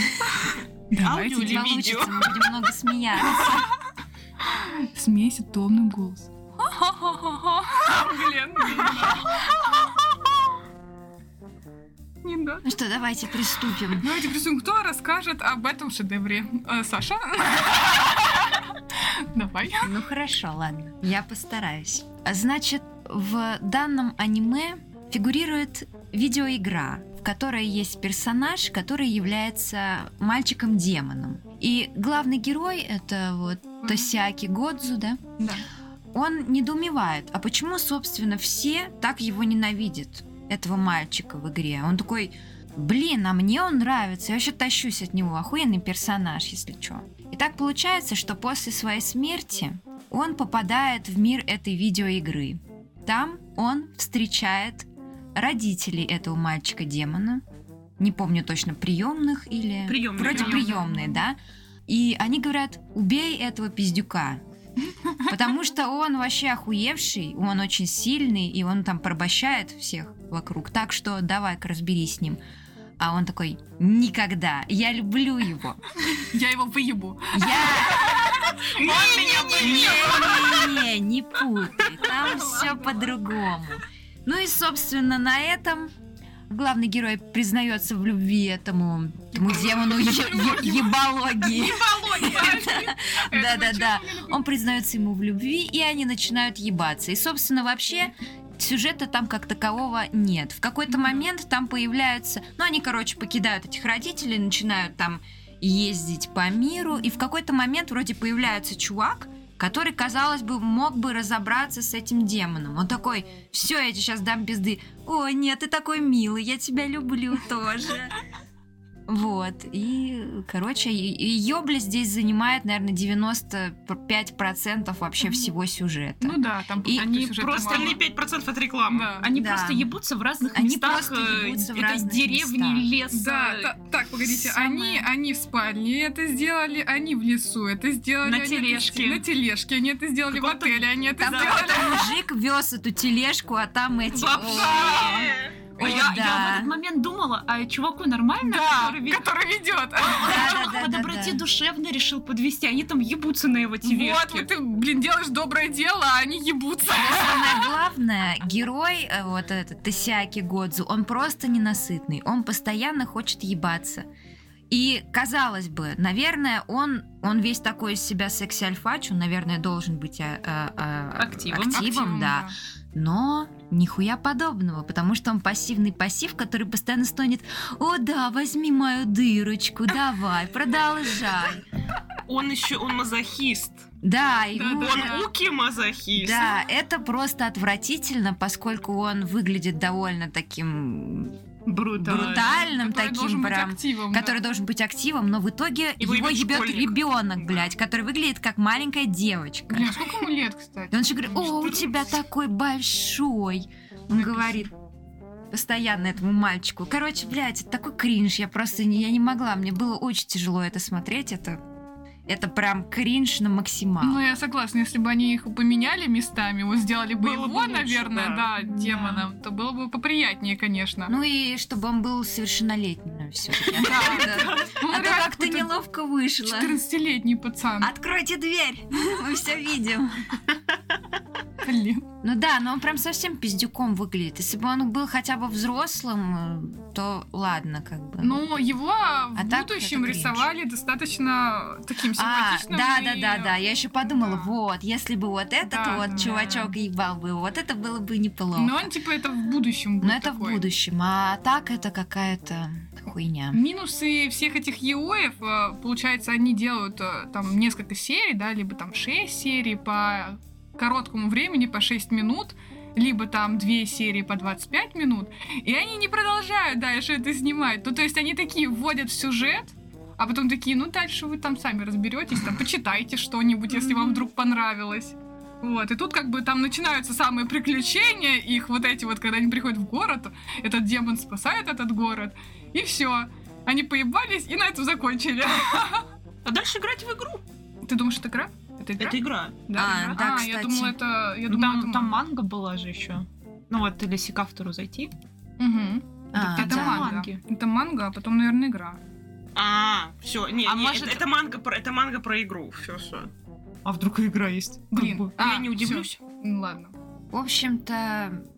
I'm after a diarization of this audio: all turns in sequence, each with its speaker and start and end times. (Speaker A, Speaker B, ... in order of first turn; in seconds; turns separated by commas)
Speaker A: 0.9-1.9, Speaker B: 1.0-2.3, Speaker C: 1.3-3.6, Speaker A: 4.6-9.5, Speaker A: 12.2-12.7, Speaker C: 12.6-14.1, Speaker A: 14.0-19.9, Speaker C: 19.8-35.3, Speaker A: 33.8-34.1, Speaker A: 35.4-35.6, Speaker C: 36.1-57.4, Speaker C: 58.0-64.4, Speaker B: 59.9-60.8, Speaker A: 60.2-61.2, Speaker C: 65.2-72.4, Speaker C: 73.0-75.8, Speaker A: 76.1-80.2, Speaker C: 77.3-78.2, Speaker D: 78.5-80.8, Speaker B: 78.8-80.1, Speaker C: 79.6-85.9, Speaker A: 82.0-83.1, Speaker C: 86.5-118.1, Speaker A: 89.3-94.5, Speaker B: 91.5-92.6, Speaker A: 100.9-101.2, Speaker C: 119.1-127.1, Speaker A: 126.2-128.0, Speaker D: 127.0-128.0, Speaker B: 127.0-129.1, Speaker A: 128.9-129.3, Speaker D: 129.2-133.7, Speaker C: 129.3-129.9, Speaker C: 130.5-132.9, Speaker A: 133.1-142.2, Speaker D: 134.3-135.1, Speaker D: 138.2-139.2, Speaker D: 140.3-141.9, Speaker C: 141.2-146.8, Speaker B: 144.2-145.7, Speaker A: 144.3-145.4, Speaker D: 145.8-149.3, Speaker A: 148.4-150.8, Speaker D: 150.0-154.5, Speaker C: 150.2-151.4, Speaker A: 153.8-157.7, Speaker C: 156.9-164.1, Speaker C: 164.7-181.6, Speaker D: 171.2-171.9, Speaker A: 171.7-172.6, Speaker B: 182.3-183.9, Speaker C: 184.0-185.2, Speaker A: 184.5-185.3, Speaker B: 184.8-186.6, Speaker C: 186.2-191.4, Speaker D: 191.7-192.5, Speaker C: 192.0-200.1, Speaker A: 192.0-194.4, Speaker B: 196.0-197.7, Speaker A: 199.7-201.9, Speaker C: 200.9-204.7, Speaker A: 204.2-204.7, Speaker C: 205.5-211.6, Speaker C: 212.3-214.2, Speaker A: 214.0-221.2, Speaker B: 217.2-218.5, Speaker D: 218.7-219.2, Speaker C: 221.1-226.8, Speaker A: 223.8-225.7, Speaker D: 223.8-224.7, Speaker A: 226.4-227.9, Speaker C: 227.8-230.6, Speaker A: 231.6-232.1, Speaker C: 232.2-238.5, Speaker A: 238.2-244.5, Speaker C: 239.3-240.5, Speaker C: 242.1-248.9, Speaker A: 245.6-246.8, Speaker A: 248.6-250.6, Speaker C: 250.0-253.6, Speaker A: 253.5-286.1, Speaker D: 273.7-274.2, Speaker B: 286.4-287.4, Speaker A: 287.9-292.2, Speaker B: 289.0-289.6, Speaker C: 289.8-291.0, Speaker D: 289.8-290.2, Speaker D: 291.5-295.1, Speaker A: 295.6-299.0, Speaker C: 296.3-297.1, Speaker D: 296.3-297.4, Speaker B: 299.6-303.3, Speaker D: 300.6-301.3, Speaker D: 303.9-305.3, Speaker A: 304.9-306.9, Speaker B: 305.4-306.1, Speaker C: 307.3-308.4